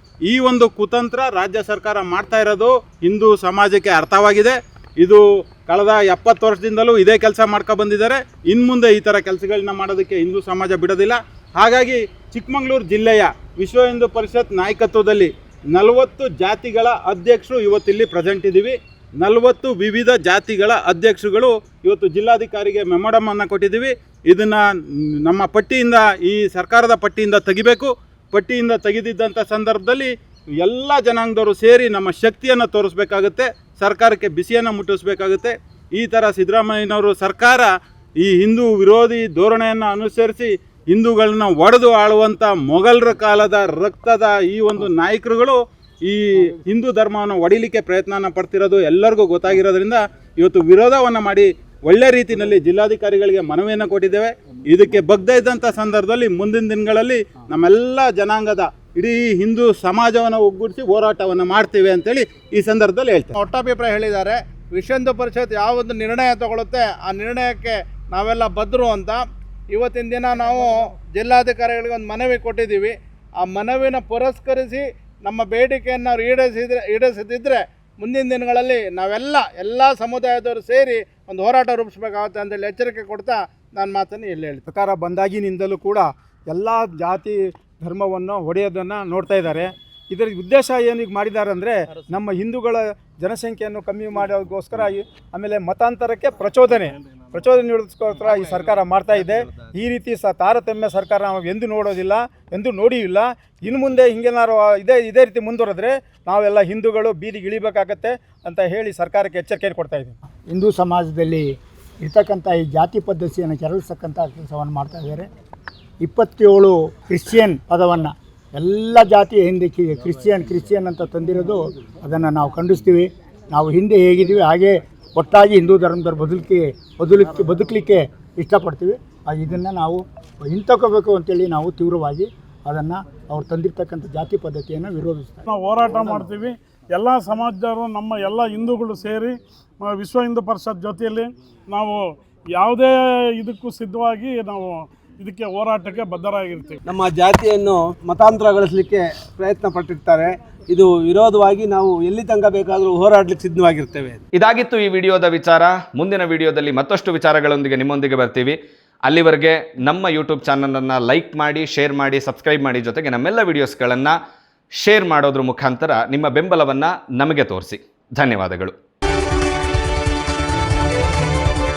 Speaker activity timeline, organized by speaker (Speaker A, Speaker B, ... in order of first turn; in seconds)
Speaker A: 0.3-63.4
Speaker B: 63.4-84.7
Speaker C: 84.7-110.2
Speaker D: 110.5-115.3, 116.0-136.2
Speaker E: 135.5-146.8
Speaker F: 146.8-154.2
Speaker G: 154.3-164.2, 164.8-168.8